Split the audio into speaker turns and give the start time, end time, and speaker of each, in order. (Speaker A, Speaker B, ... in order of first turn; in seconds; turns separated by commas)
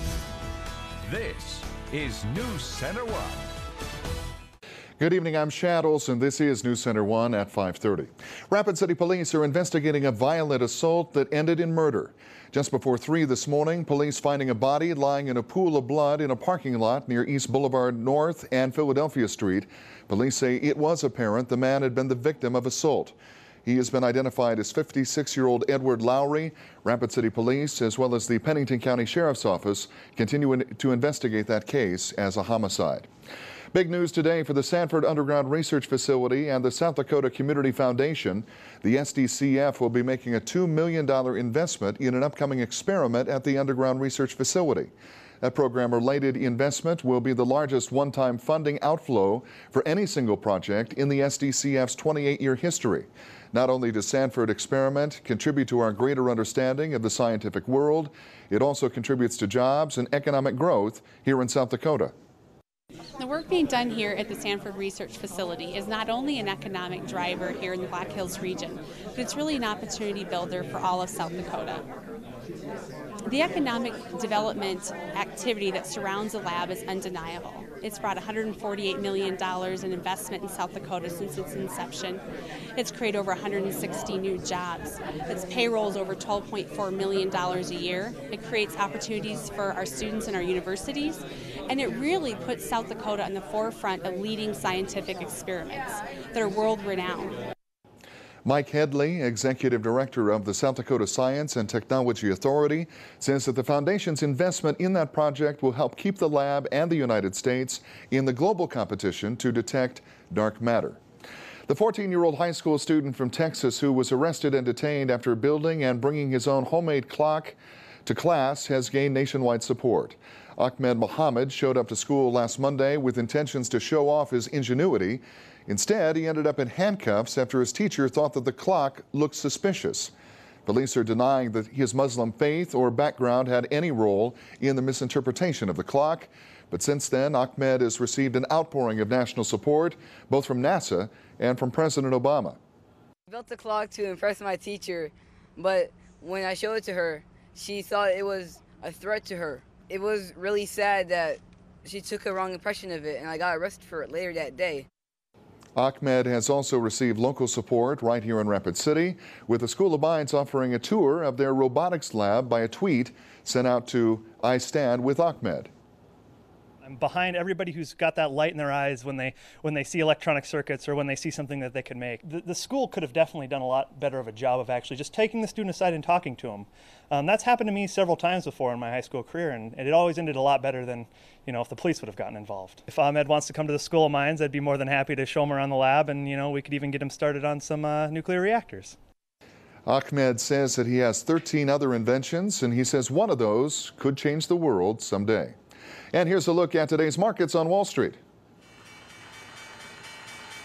Speaker A: 1.0-3.5, Speaker B: 5.0-33.1, Speaker B: 33.7-62.1, Speaker C: 63.2-71.8, Speaker C: 73.3-82.2, Speaker C: 82.8-97.3, Speaker B: 98.5-111.0, Speaker B: 111.7-130.1, Speaker B: 130.7-142.6, Speaker D: 143.3-154.9, Speaker B: 155.8-165.7, Speaker E: 166.8-189.0, Speaker B: 189.9-195.6, Speaker B: 196.1-198.2